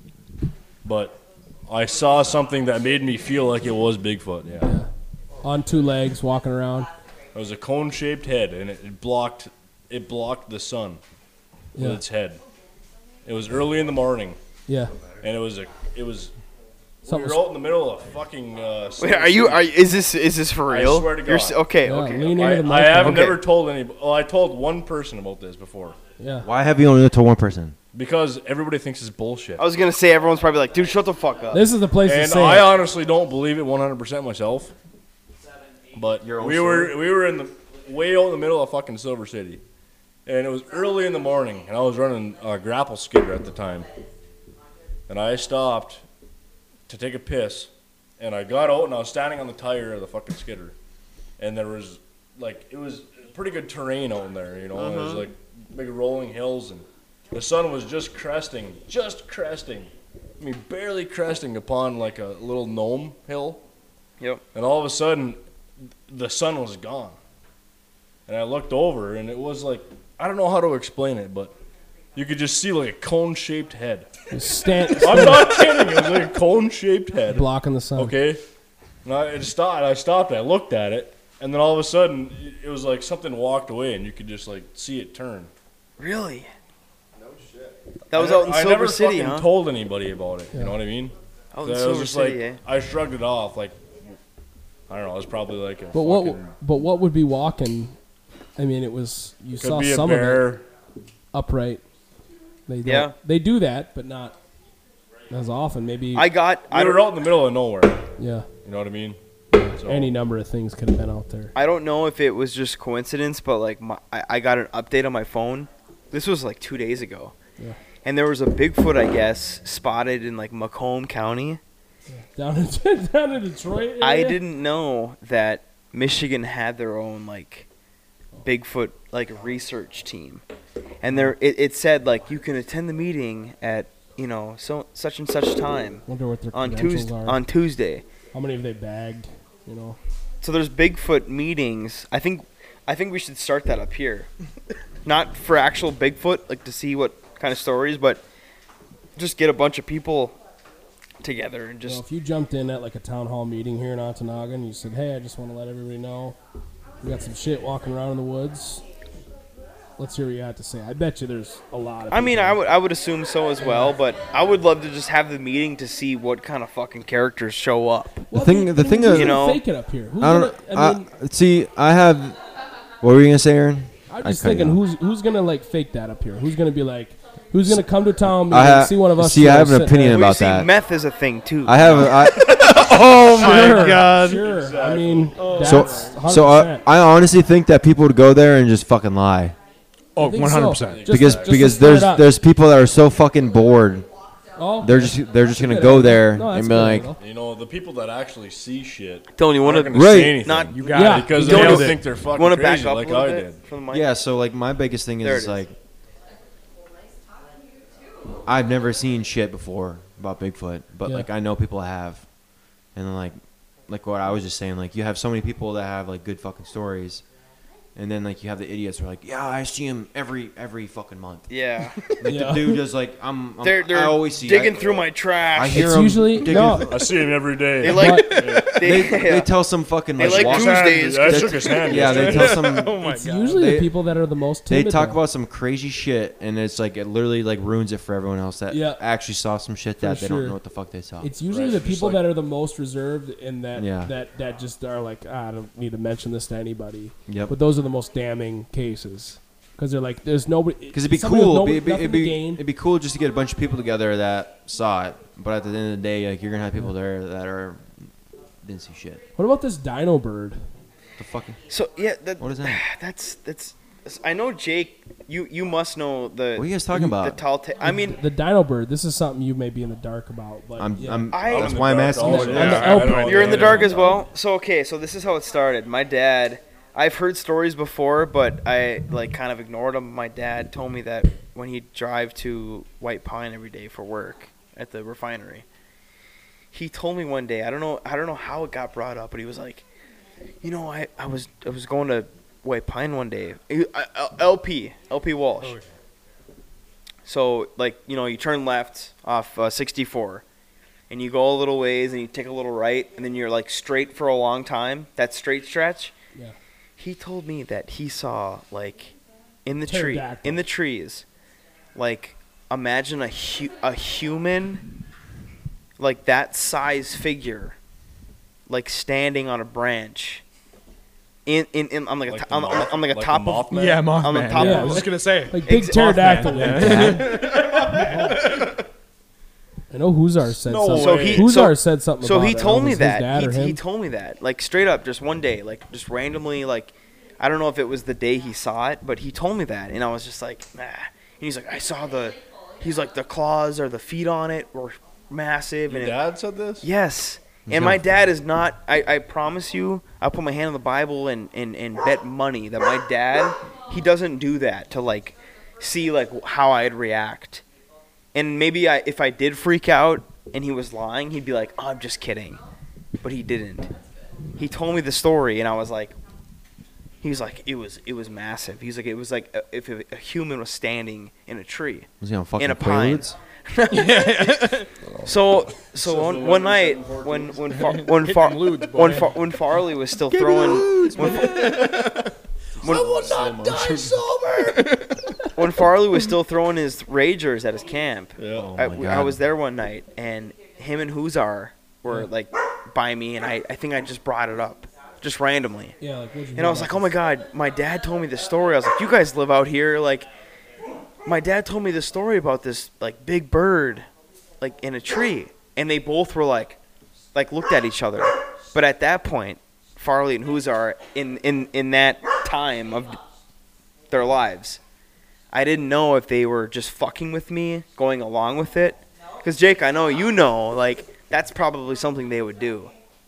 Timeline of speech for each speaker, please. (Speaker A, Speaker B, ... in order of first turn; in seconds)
Speaker A: 0.8-4.7, 7.3-11.0, 11.8-12.4, 13.2-14.4, 15.2-16.3, 17.0-19.7, 20.7-21.6, 22.3-26.0, 27.9-29.6, 32.0-34.7, 35.9-39.6, 40.2-43.9, 45.1-46.0, 46.9-50.8, 51.4-63.6, 64.5-65.4, 66.1-67.2, 68.3-71.5, 72.1-74.1, 74.8-78.4, 79.0-85.5, 88.1-94.2, 94.9-96.5, 99.6-100.6, 106.7-108.0, 108.6-109.2, 109.7-110.1, 181.7-182.2, 183.3-186.1, 190.8-191.9, 197.2-203.6, 224.7-225.0, 226.5-229.0, 230.2-232.7, 241.4-242.3, 271.4-274.2, 322.3-324.2, 324.8-325.1, 330.6-331.6, 345.9-346.9, 375.9-379.2, 382.8-384.3, 388.4-388.7
Speaker B: 4.6-4.9, 5.4-6.9, 11.7-12.0, 14.7-14.9, 17.0-17.5, 21.8-23.3, 26.2-26.4, 31.5-32.7, 74.3-75.8, 77.3-78.2, 95.9-97.9, 98.5-100.5, 101.3-101.8, 102.7-104.3, 105.3-106.3, 108.2-108.5, 109.5-111.5, 122.1-124.4, 131.1-131.3, 136.1-137.4, 138.3-140.0, 151.8-156.3, 157.0-158.8, 160.0-162.6, 163.6-163.9, 168.3-171.1, 174.1-180.3, 183.4-186.8, 190.2-192.3, 194.6-197.2, 200.9-201.9, 222.2-222.8, 225.7-227.0, 227.9-228.4, 233.0-235.2, 238.7-239.0, 240.0-240.6, 241.2-252.6, 259.4-260.6, 267.8-271.4, 272.2-273.9, 309.9-310.6, 324.6-328.6, 329.9-333.8, 396.0-397.1
Speaker C: 19.0-23.4, 29.6-31.6, 54.7-55.2, 86.0-86.5, 88.1-89.5, 91.5-92.6, 102.8-103.1, 106.1-107.0, 111.5-117.3, 118.0-121.6, 124.0-127.7, 128.4-130.4, 131.0-138.0, 140.4-144.3, 145.0-148.2, 149.2-150.3, 151.2-152.0, 162.1-168.3, 169.1-169.6, 180.1-182.1, 199.3-204.1, 205.2-205.6, 221.5-222.0, 223.6-225.9, 227.8-229.5, 230.2-233.5, 261.7-268.2, 271.3-285.6, 286.7-289.8, 290.6-295.8, 297.2-300.4, 301.1-306.1, 307.0-309.1, 309.6-311.2, 311.9-314.8, 316.0-317.8, 318.7-320.4, 321.4-327.1, 330.9-346.2, 346.8-357.6, 358.3-362.6, 363.2-363.9, 364.6-366.1, 367.2-381.7, 382.8-383.3, 385.5-395.9, 396.5-400.3, 401.2-404.1, 404.6-406.8, 407.3-413.2, 414.1-414.8, 415.5-422.9
Speaker D: 26.4-27.8, 36.2-37.0, 168.3-169.4, 170.2-172.4, 173.0-174.8, 177.7-180.7, 181.6-183.1, 185.6-189.5, 191.1-194.1, 194.8-197.1, 199.9-200.6, 203.9-205.7, 208.4-212.2, 212.9-217.2, 217.9-221.5, 222.2-224.9, 225.5-226.9, 228.8-233.9, 234.7-241.3, 243.7-244.1, 247.3-247.5, 250.9-258.1, 258.6-259.2, 261.2-261.6, 262.4-262.8, 266.6-267.4, 270.8-273.2, 347.6-348.0, 372.2-373.4, 380.4-381.6, 388.5-389.4
Speaker E: 182.2-184.4, 190.2-191.0, 200.7-202.0, 323.7-328.0, 373.9-374.9, 380.4-382.2, 382.8-385.0